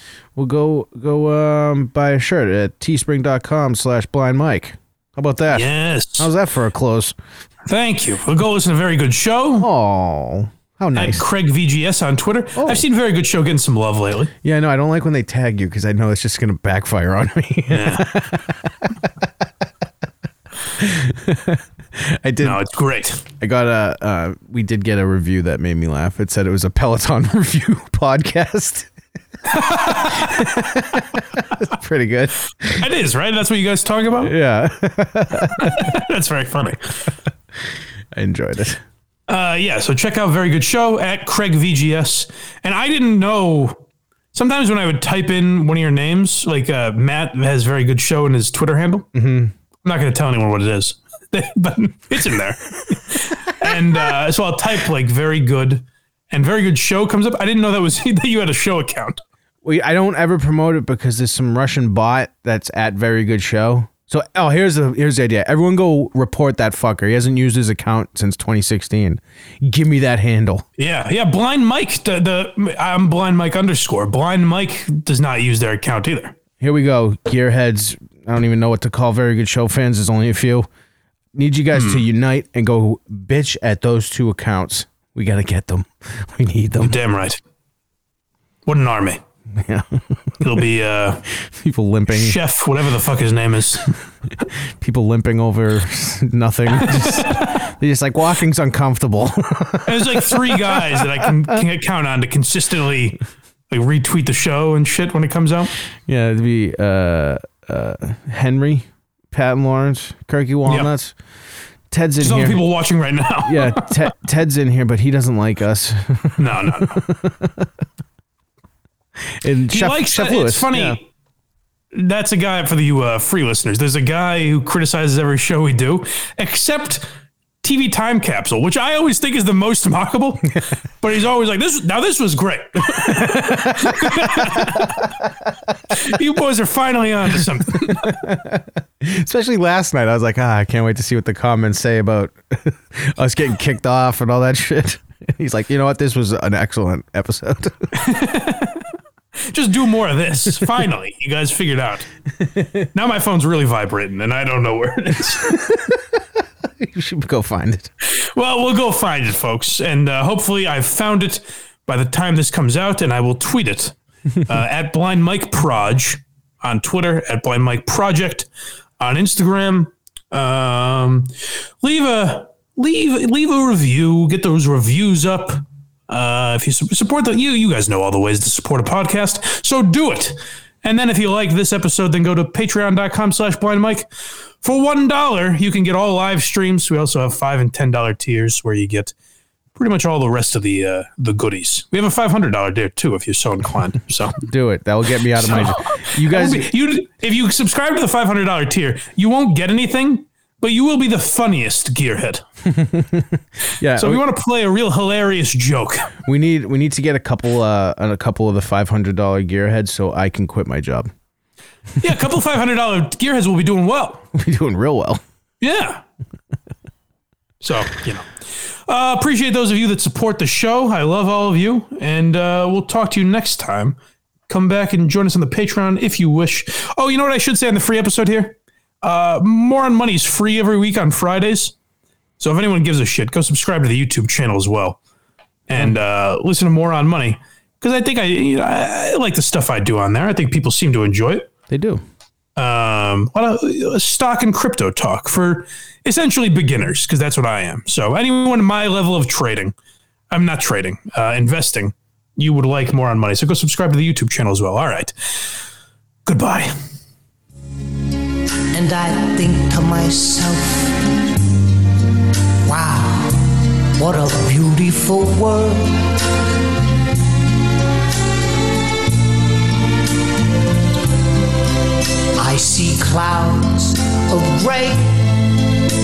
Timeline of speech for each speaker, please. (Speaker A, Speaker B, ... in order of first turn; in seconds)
Speaker A: 0.4-7.2, 9.6-11.3, 12.6-12.8, 14.4-19.2, 20.8-22.6, 23.4-28.9, 29.5-32.9, 34.2-36.0, 38.1-38.8, 49.1-49.5, 53.6-54.0, 59.6-70.7, 76.6-80.7, 81.3-87.0, 89.5-90.2, 91.3-92.4, 94.5-101.6, 106.1-111.2, 111.9-112.6, 113.4-117.7, 119.3-121.0, 132.9-135.1, 137.7-147.9, 152.4-152.9, 155.4-157.9, 194.4-196.7, 202.7-204.2, 206.2-211.1, 214.3-215.2, 241.7-242.0
Speaker B: 5.5-6.3, 7.7-9.7, 10.9-14.3, 17.7-18.3, 22.4-23.2, 29.5-30.5, 32.6-34.3, 35.5-37.0, 39.3-43.8, 44.3-49.1, 49.8-59.2, 70.8-76.3, 81.7-82.1, 86.8-87.4, 88.7-89.2, 90.4-91.2, 92.1-93.9, 96.8-97.6, 99.8-105.7, 112.2-114.1, 116.4-117.0, 119.7-121.0, 121.9-127.0, 127.6-135.1, 135.9-138.2, 147.9-148.8, 149.4-152.1, 152.9-155.9, 158.1-168.5, 169.0-184.1, 184.6-189.1, 189.8-194.4, 195.4-202.4, 204.0-206.1, 212.0-214.2, 215.6-216.0, 217.6-218.3, 218.9-224.0, 224.5-231.8, 232.4-235.0, 235.7-241.5, 242.6-249.8, 250.3-255.1, 256.2-256.7
Speaker C: 258.7-261.2, 262.6-266.2, 272.4-275.6